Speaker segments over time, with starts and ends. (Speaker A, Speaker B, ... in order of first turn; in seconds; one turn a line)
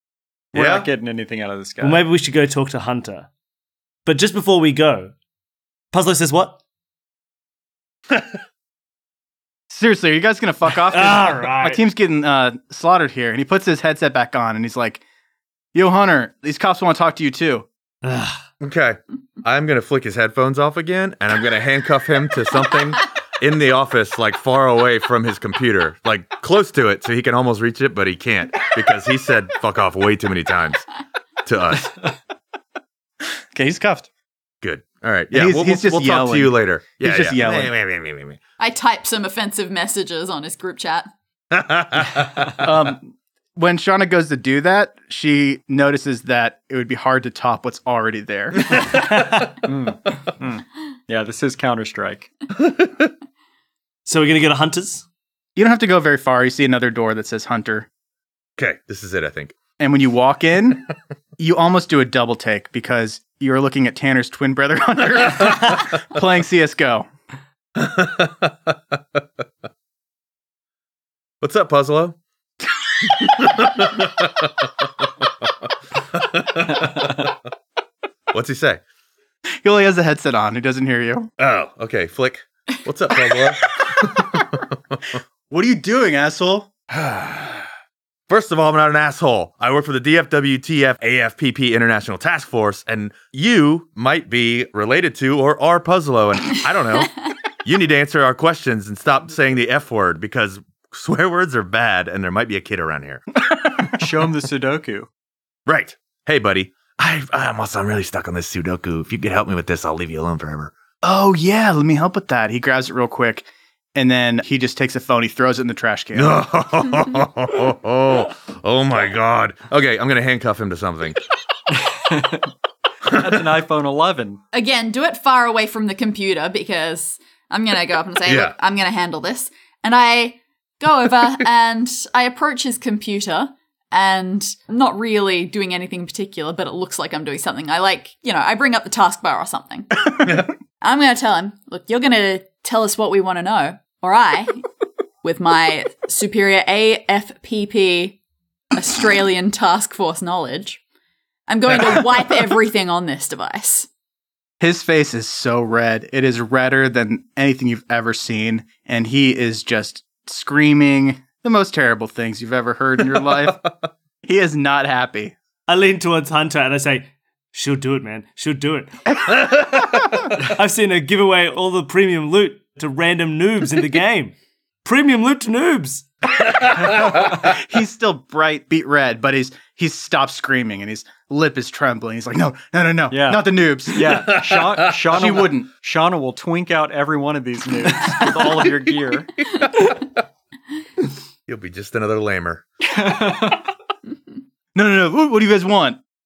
Speaker A: 0.5-2.0
Speaker B: 0.5-0.9
Speaker C: 1.8-3.3
Speaker C: 4.0-5.1
Speaker C: 5.9-6.6
Speaker D: 9.7-15.0
Speaker C: 10.9-11.8
Speaker D: 15.7-17.7
Speaker C: 18.0-18.4
Speaker B: 18.6-30.8
Speaker B: 31.4-31.9
Speaker D: 33.5-34.1
Speaker B: 34.6-38.4
Speaker D: 35.3-37.7
Speaker E: 38.6-41.1
Speaker B: 41.5-42.6
Speaker D: 42.6-48.8
Speaker A: 49.6-52.3
Speaker B: 52.6-53.1
Speaker C: 54.0-55.0
Speaker D: 55.5-57.9
Speaker B: 58.6-59.5
Speaker D: 59.8-67.1
Speaker B: 67.8-68.7
Speaker B: 71.4-72.2
Speaker B: 73.0-75.2
Speaker B: 76.1-77.3
Speaker B: 78.3-78.8
Speaker D: 79.6-81.3
Speaker B: 81.4-85.0
Speaker D: 85.5-86.7
Speaker B: 86.9-87.6
Speaker B: 88.3-97.1
Speaker B: 97.6-103.2
Speaker D: 103.5-103.8
Speaker A: 103.9-105.1
Speaker B: 105.7-110.7
Speaker D: 111.0-116.4
Speaker B: 116.1-121.2
Speaker A: 121.7-122.5
Speaker A: 123.0-124.4
Speaker E: 124.5-140.0
Speaker B: 128.3-128.5
Speaker E: 140.8-144.6
Speaker E: 145.2-148.2
Speaker E: 148.7-150.8
Speaker E: 151.5-153.9
Speaker D: 154.6-163.7
Speaker D: 164.2-165.3
Speaker C: 165.7-169.2
Speaker B: 169.3-170.0
Speaker C: 170.3-176.0
Speaker B: 176.5-177.4
Speaker D: 176.8-184.4
Speaker A: 183.1-189.5
Speaker B: 184.1-184.9
Speaker D: 185.0-185.7
Speaker B: 191.5-192.6
Speaker A: 192.8-193.7
Speaker D: 194.7-196.0